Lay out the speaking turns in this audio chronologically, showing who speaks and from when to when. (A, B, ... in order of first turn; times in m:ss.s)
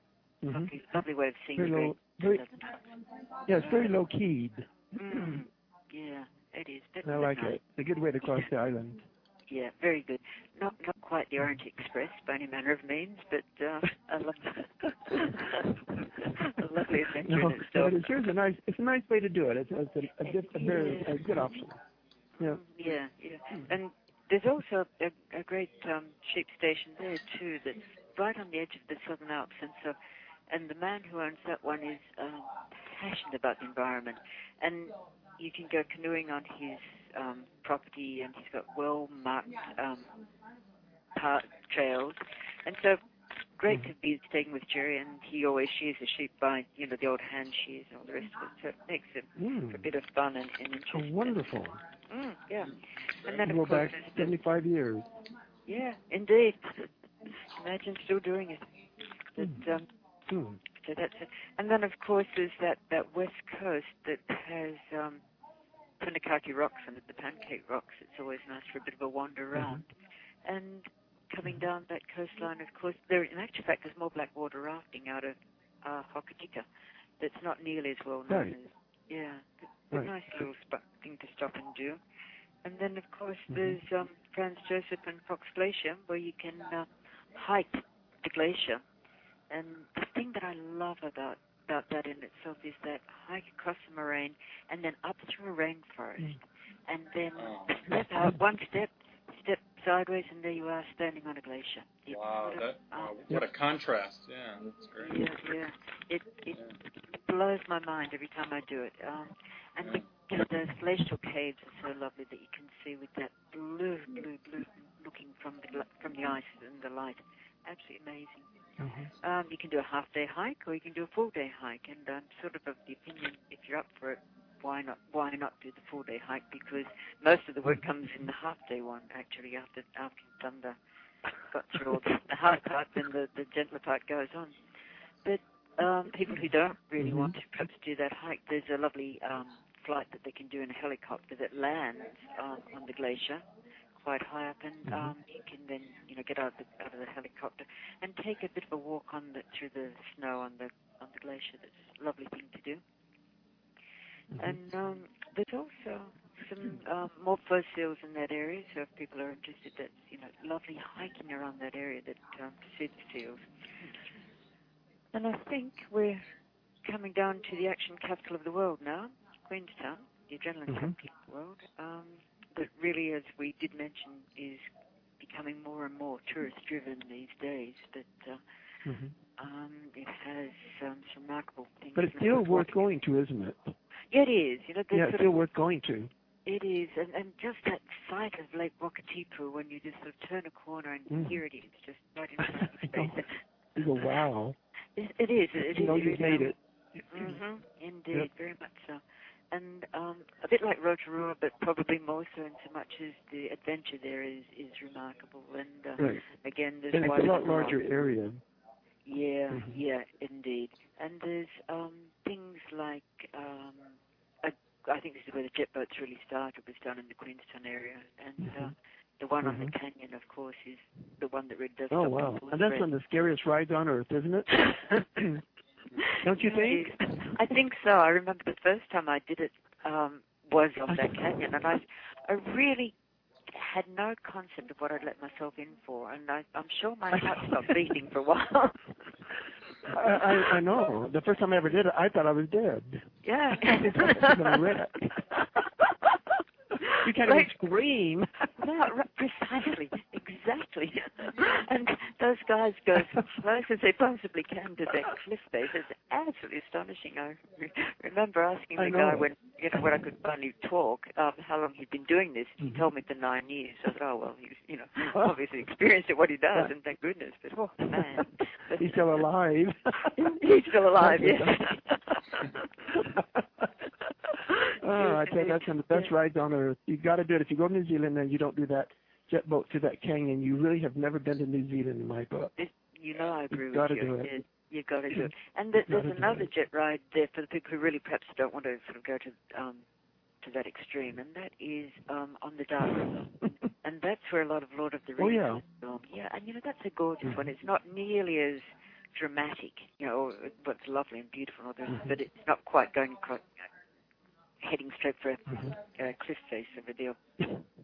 0:00.4-0:00.7 A
0:00.5-0:02.8 B
0:01.6-0:02.4 A
0:03.5-0:05.4 A
0:03.6-0:03.9 B
0:05.0-0:07.6 B
0:07.0-0:09.1 A
0:09.5-0:18.1 B
0:17.2-0:21.8 A
0:20.2-0:21.4 B
0:22.4-0:30.0 B
0:30.5-0:40.1 B
0:41.2-0:43.0 B
0:43.6-0:51.4 B
0:49.4-0:49.8 A
0:50.9-0:51.8 A
0:52.1-0:54.4 B
0:53.4-0:55.1 A
0:55.7-0:58.7 B
0:59.3-0:59.9 B
1:00.3-1:00.6 A
1:00.8-1:05.2 B
1:06.0-1:09.9 B
1:09.6-1:09.8 A
1:10.4-1:16.7 B
1:17.2-1:22.0 B
1:18.3-1:18.6 A
1:22.6-1:28.8 B
1:23.5-1:23.8 A
1:29.5-1:43.3 B
1:37.4-1:37.8 C
1:37.9-1:38.3 A
1:42.1-1:45.3 C
1:45.0-1:58.5 B
1:58.8-1:59.1 A
1:59.2-2:10.8 B
2:11.4-2:14.6 B
2:15.2-2:23.4 B
2:17.0-2:17.3 A
2:24.0-2:32.8 B
2:24.9-2:25.1 A
2:34.3-2:34.6 A
2:34.4-2:43.4 B
2:45.1-2:46.3 B
2:46.8-2:54.6 B
2:50.7-2:51.0 A
2:55.2-2:58.4 B
2:58.8-2:59.2 A
2:59.4-3:02.8 B
3:02.0-3:03.7 A
3:04.1-3:05.4 B
3:04.9-3:06.1 A
3:06.5-3:13.4 B
3:11.1-3:11.4 A
3:12.4-3:13.2 A
3:13.8-3:14.6 A
3:15.0-3:16.5 B
3:15.6-3:17.4 A
3:17.1-3:27.8 B
3:26.0-3:26.2 A
3:26.9-3:28.4 A
3:29.0-3:42.9 B
3:29.5-3:29.8 A
3:38.4-3:38.7 A
3:39.4-3:39.7 A
3:41.9-3:45.4 A
3:46.0-3:53.0 B
3:46.2-3:47.4 A
3:50.9-3:51.5 A
3:53.5-3:59.1 B
3:57.2-3:57.5 A
3:59.8-4:00.6 B
3:59.9-4:03.0 A
4:03.2-4:04.7 B
4:03.6-4:05.4 A
4:06.8-4:07.5 B
4:06.9-4:08.6 A
4:08.6-4:29.1 B
4:18.8-4:19.9 A
4:27.9-4:30.2 A
4:30.1-4:33.1 B
4:31.0-4:31.6 A
4:32.9-4:33.7 A
4:34.3-4:36.1 B
4:34.8-4:42.5 A
4:42.6-4:49.8 B
4:43.5-4:44.3 A
4:45.9-4:46.5 A
4:50.4-5:03.5 B
4:55.2-4:55.6 A
5:01.9-5:02.2 A
5:04.6-5:07.5 B
5:05.5-5:05.8 A